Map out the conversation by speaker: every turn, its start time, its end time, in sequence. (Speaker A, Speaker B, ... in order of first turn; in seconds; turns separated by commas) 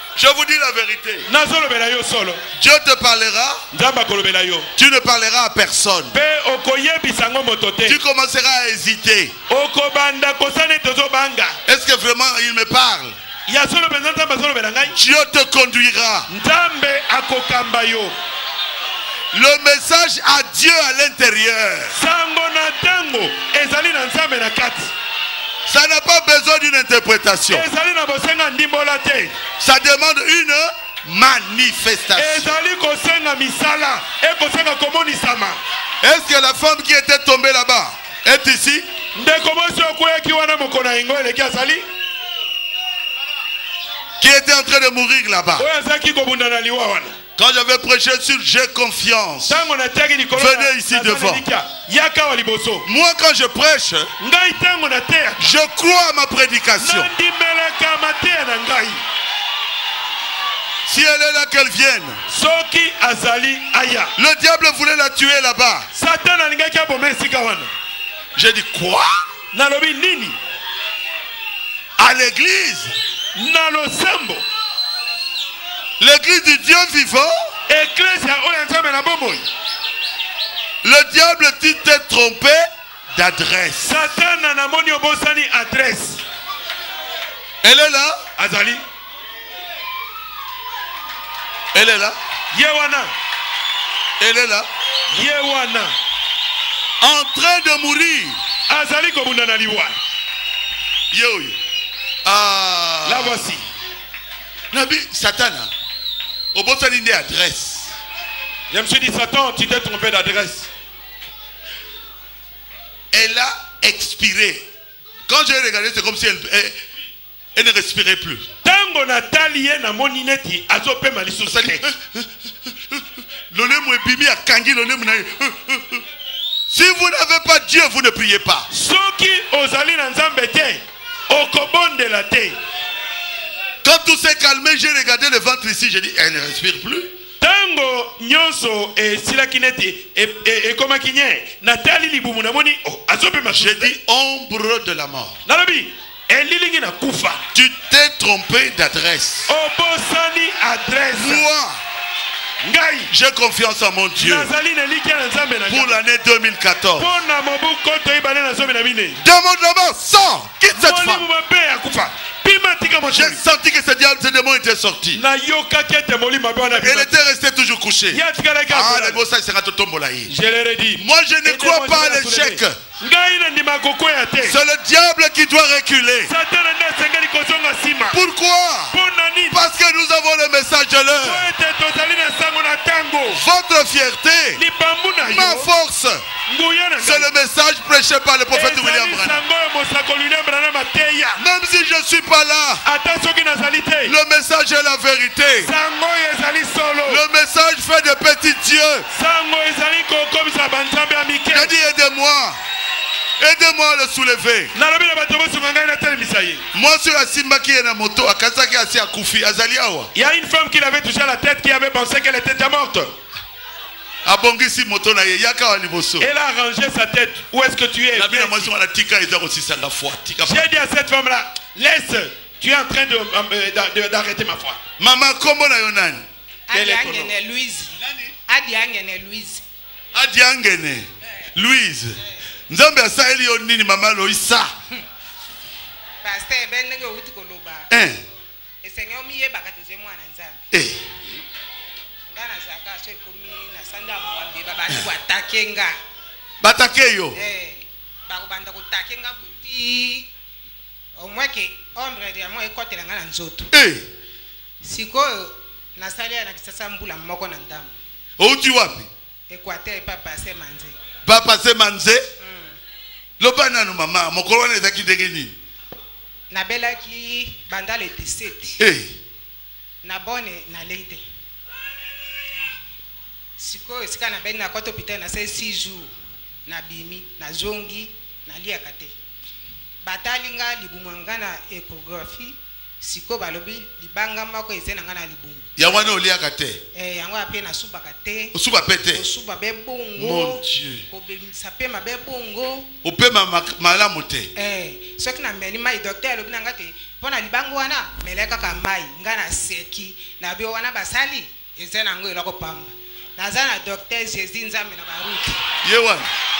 Speaker A: 0.1-1.3, Speaker B: 1.3-2.4, Speaker A: 2.5-3.6, Speaker B: 3.7-4.7, Speaker A: 4.8-6.2, Speaker B: 6.1-8.0, Speaker A: 7.8-9.3, Speaker B: 9.5-11.6, Speaker A: 11.7-13.2, Speaker B: 13.5-15.0, Speaker A: 14.9-16.3, Speaker B: 16.3-18.1, Speaker A: 19.3-22.0, Speaker B: 21.9-24.9, Speaker A: 25.6-27.7, Speaker B: 27.5-29.4, Speaker A: 29.6-32.5, Speaker B: 32.1-35.6, Speaker A: 36.0-38.9, Speaker B: 39.1-41.8, Speaker A: 44.2-45.6, Speaker B: 45.6-47.1, Speaker A: 47.4-49.6, Speaker B: 49.5-52.9, Speaker A: 50.3-51.4, Speaker A: 52.8-54.1, Speaker B: 54.2-55.5, Speaker A: 55.4-57.1, Speaker B: 56.8-59.0, Speaker A: 60.9-62.2, Speaker B: 62.3-64.1, Speaker A: 64.2-65.9, Speaker B: 65.9-67.7, Speaker A: 68.3-69.2, Speaker B: 69.5-70.4, Speaker A: 72.0-72.9, Speaker B: 73.3-74.4, Speaker A: 76.0-77.3, Speaker B: 77.7-79.4, Speaker A: 80.8-83.9, Speaker B: 83.8-86.2, Speaker A: 87.6-88.2, Speaker B: 88.4-88.8, Speaker A: 91.7-92.2, Speaker B: 92.5-93.1, Speaker A: 94.2-94.7, Speaker B: 95.1-95.9, Speaker A: 97.0-98.4, Speaker B: 98.7-99.9, Speaker A: 101.1-101.6, Speaker A: 102.2-103.5, Speaker B: 103.0-103.6, Speaker A: 104.7-105.7, Speaker A: 106.5-108.0, Speaker B: 108.7-110.7, Speaker A: 113.1-114.6, Speaker A: 115.3-116.8, Speaker A: 117.5-118.5, Speaker B: 118.6-121.8, Speaker A: 121.4-126.0, Speaker A: 126.7-128.7, Speaker B: 128.7-132.5, Speaker A: 133.8-137.1, Speaker B: 137.4-143.9, Speaker A: 143.5-145.4, Speaker B: 145.4-147.4, Speaker A: 147.5-149.5, Speaker B: 149.5-151.4, Speaker A: 151.2-151.8, Speaker B: 152.6-153.1, Speaker A: 153.1-154.5, Speaker B: 154.2-156.0, Speaker A: 155.7-157.1, Speaker B: 157.0-159.2, Speaker A: 159.2-161.3, Speaker B: 160.7-163.4, Speaker A: 163.1-165.2, Speaker B: 165.1-167.2, Speaker A: 166.7-170.3, Speaker B: 168.1-169.2, Speaker B: 170.3-174.6, Speaker A: 171.0-172.8, Speaker A: 174.4-176.3, Speaker B: 176.3-178.2, Speaker A: 178.1-178.9, Speaker B: 178.9-179.6, Speaker A: 179.5-181.5, Speaker B: 181.2-183.4, Speaker A: 183.3-184.6, Speaker B: 184.6-185.7, Speaker A: 185.2-186.2, Speaker B: 186.5-187.3, Speaker A: 187.0-189.4, Speaker B: 188.5-191.4, Speaker A: 191.4-192.8, Speaker B: 192.8-194.2, Speaker A: 194.0-195.7, Speaker B: 195.6-197.2, Speaker A: 197.1-199.1, Speaker B: 199.1-201.7, Speaker A: 201.5-202.6, Speaker A: 203.4-204.7, Speaker B: 204.7-206.6, Speaker A: 206.7-210.1, Speaker B: 210.1-213.1, Speaker A: 214.2-216.3, Speaker B: 216.2-218.7, Speaker A: 218.1-220.7, Speaker B: 220.4-224.8, Speaker A: 225.0-226.2, Speaker C: 226.7-227.9, Speaker B: 226.7-227.3, Speaker C: 228.5-229.6, Speaker A: 230.1-234.7, Speaker C: 236.2-237.9, Speaker A: 237.9-238.2, Speaker C: 238.8-240.6, Speaker A: 240.7-241.2, Speaker C: 242.3-246.0, Speaker A: 246.6-247.4, Speaker C: 247.3-250.3, Speaker C: 251.2-253.7, Speaker A: 253.7-254.1, Speaker C: 254.8-257.9, Speaker A: 258.4-259.1, Speaker C: 259.5-260.9, Speaker A: 261.2-262.2, Speaker C: 262.4-262.8, Speaker A: 263.4-265.5, Speaker C: 266.5-268.8, Speaker A: 268.8-269.1, Speaker C: 270.0-271.2, Speaker C: 273.6-276.1, Speaker C: 276.6-279.1, Speaker C: 280.0-285.7, Speaker A: 285.8-286.8, Speaker C: 286.9-288.5, Speaker A: 288.5-289.2, Speaker C: 289.1-292.9, Speaker A: 290.2-291.1, Speaker A: 293.0-294.5, Speaker C: 294.6-305.6, Speaker A: 305.8-306.3